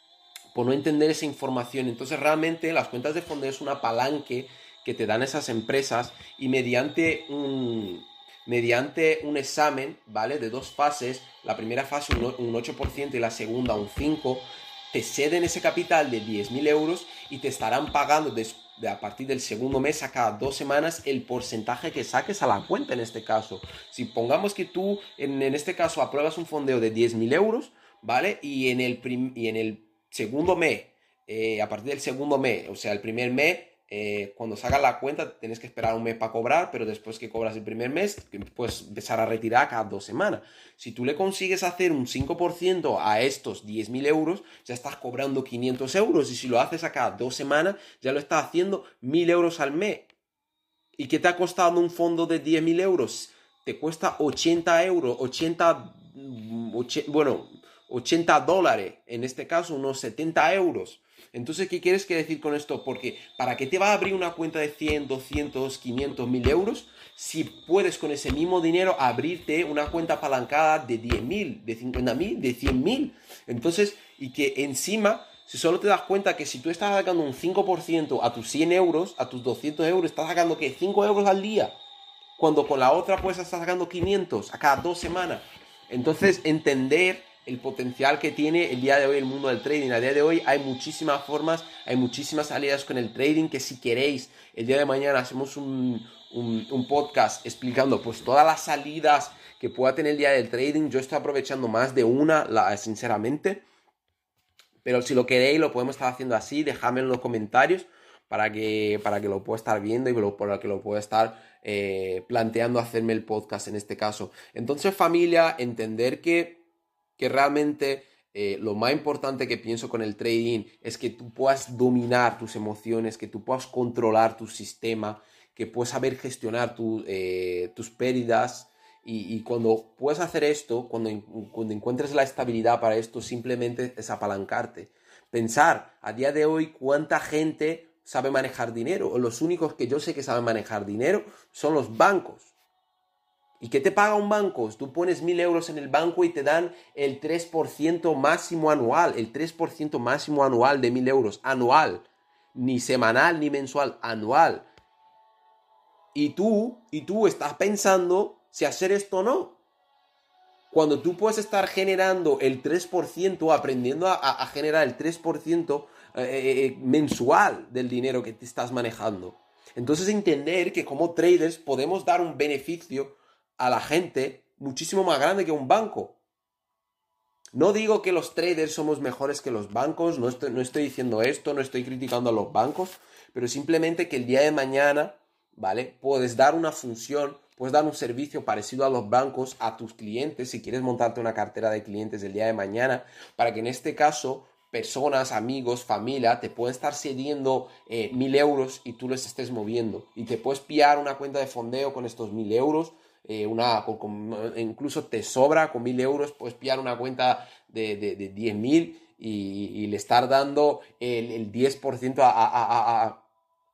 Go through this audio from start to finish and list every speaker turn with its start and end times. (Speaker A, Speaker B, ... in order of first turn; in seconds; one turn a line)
Speaker A: 0.5-50.1
Speaker A: 51.0-81.8
Speaker A: 82.4-103.6
Speaker A: 104.8-116.6
Speaker A: 117.2-142.5
Speaker A: 143.6-154.7
Speaker A: 156.1-159.6
Speaker A: 160.7-176.2
Speaker A: 177.5-213.2